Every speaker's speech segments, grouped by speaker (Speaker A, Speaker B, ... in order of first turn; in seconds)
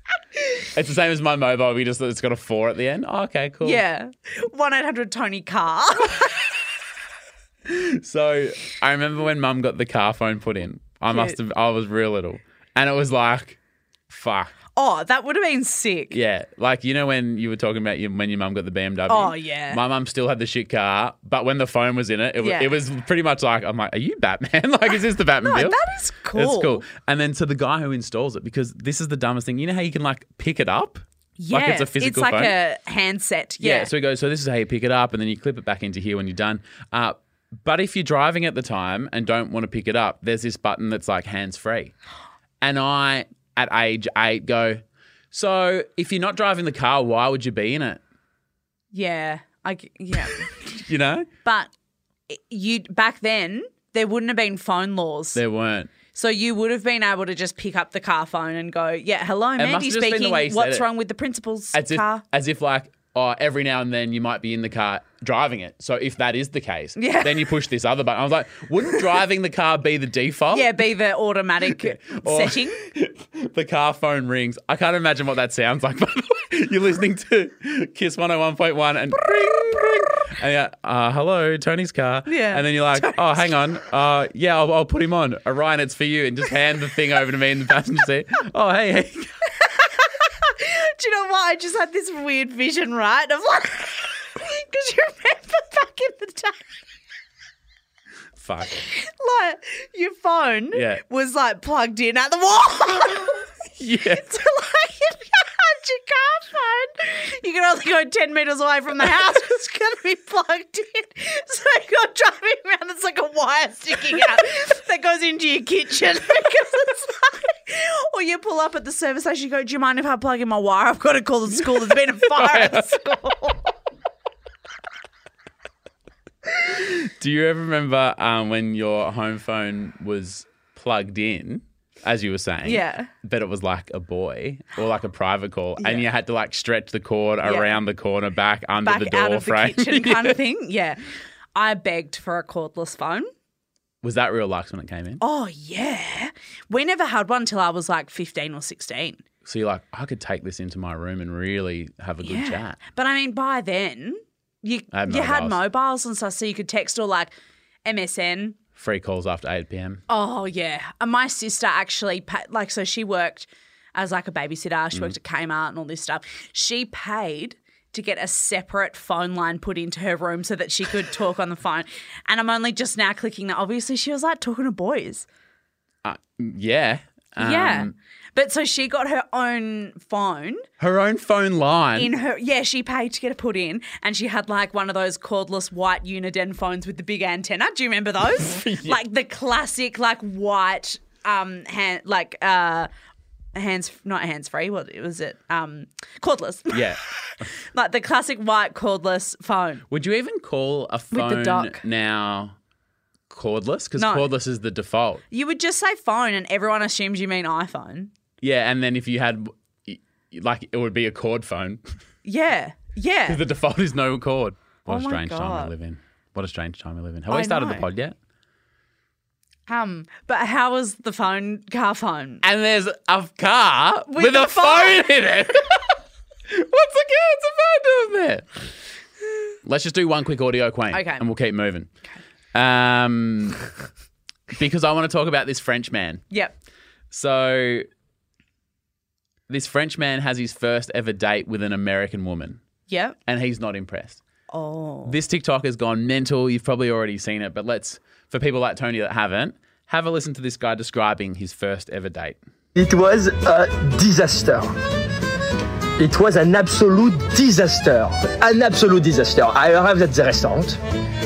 Speaker A: 0.6-3.8, 7.7-13.6, 14.1-14.5, 16.1-25.8, 26.3-32.5, 33.6-41.9, 42.6-44.8, 45.3-48.0, 50.6-51.3, 55.4-55.9, 59.6-60.9, 61.7-70.8, 71.7-89.3, 98.4-98.8, 100.7-101.0, 103.8-104.3, 122.2-122.9, 126.6-140.4, 144.0-145.2, 149.4-152.8, 154.9-155.6, 158.8-160.0, 176.0-177.9, 180.8-182.1, 188.4-189.0, 196.7-197.5, 199.9-202.6, 203.3-205.2, 208.4-211.8, 213.3-218.2, 222.4-226.0, 226.5-228.6, 229.6-231.9, 232.5-233.7, 234.5-236.2, 237.1-237.9, 239.5-242.6, 243.3-244.2, 245.1-252.4
Speaker B: 3.6-6.4, 11.1-11.4, 14.8-16.2, 19.1-19.8, 22.4-22.7, 25.4-26.8, 31.4-33.9, 48.9-50.5, 51.4-51.7, 52.3-55.4, 56.1-62.2, 67.0-67.5, 70.5-72.8, 82.3-83.5, 89.7-96.7, 98.8-123.7, 132.6-133.1, 135.8-136.1, 137.4-137.8, 138.8-141.0, 141.6-143.3, 145.2-149.2, 152.2-157.3, 157.8-158.6, 160.1-175.3, 177.4-180.7, 182.0-192.9, 193.6-196.9, 197.6-199.8, 201.1-201.8, 204.0-204.3, 205.3-208.1, 212.2-213.4, 214.9-215.7, 217.3-217.9, 219.7-222.4, 224.1-225.1, 230.9-231.2, 242.9-243.2, 244.5-245.2
Speaker C: 252.8-254.7, 256.0-260.8